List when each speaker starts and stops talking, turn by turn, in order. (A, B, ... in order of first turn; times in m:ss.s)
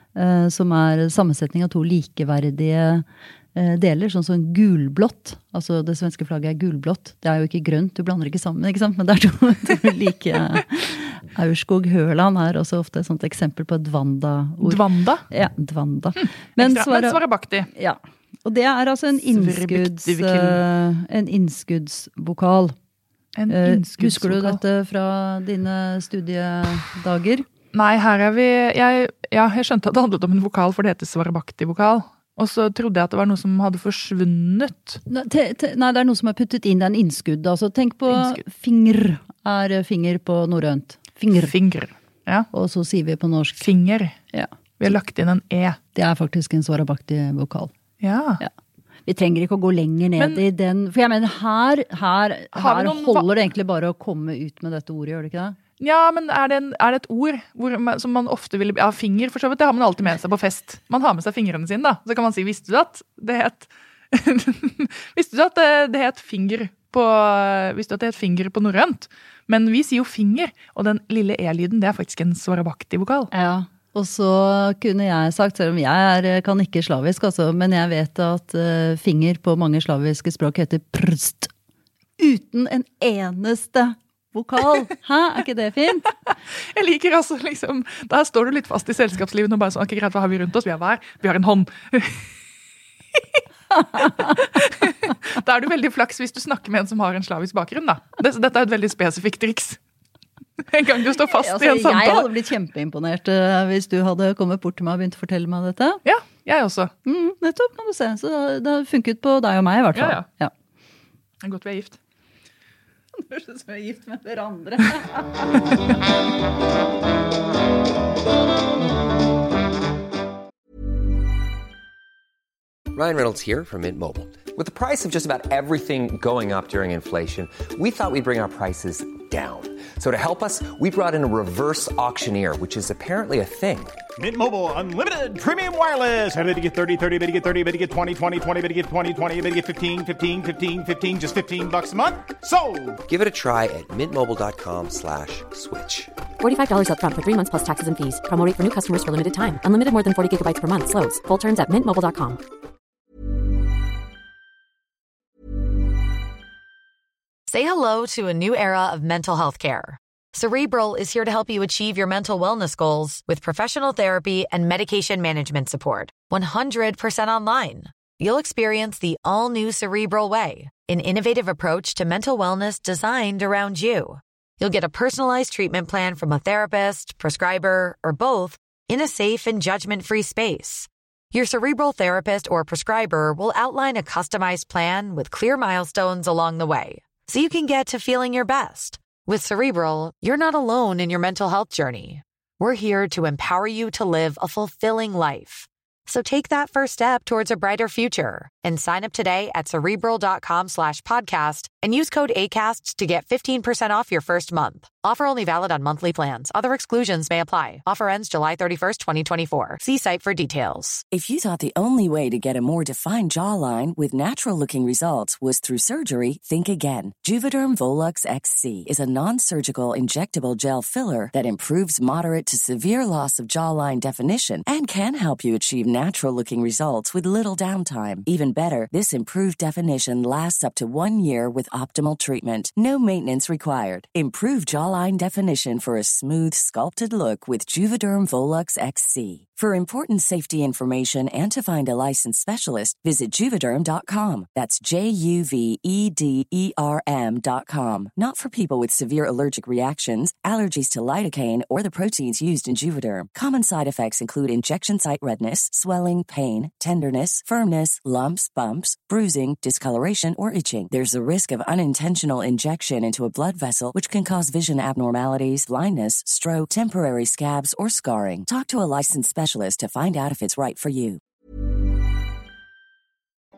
0:00.1-0:22.7 A
0:14.6-0:15.2 B
0:16.2-0:17.7 B
0:19.3-0:20.6 B
0:23.4-0:24.6 B
0:23.5-0:27.5 A
0:27.7-0:35.0 B
0:35.1-0:41.5 A
0:38.1-0:38.4 B
0:41.3-0:42.5 B
0:42.5-0:43.6 A
0:43.6-0:44.2 B
0:44.8-0:45.8 B
0:45.9-0:47.7 A
0:48.0-0:48.4 B
0:49.0-0:55.6 A
0:52.5-0:53.2 B
0:55.8-1:13.3 B
1:13.3-1:21.5 A
1:22.2-1:26.1 A
1:26.7-1:32.3 B
1:33.7-1:34.5 A
1:34.0-1:39.8 B
1:40.7-1:42.3 B
1:41.3-1:46.0 A
1:46.0-1:46.9 B
1:47.0-1:50.5 A
1:49.9-1:50.2 B
1:51.4-1:52.0 B
1:53.2-1:55.5 A
2:02.9-2:14.0 C
2:14.2-2:23.0 D
2:23.1-2:26.1 C
2:26.4-2:32.4 E
2:37.5-3:31.0 F
3:31.1-4:31.2 G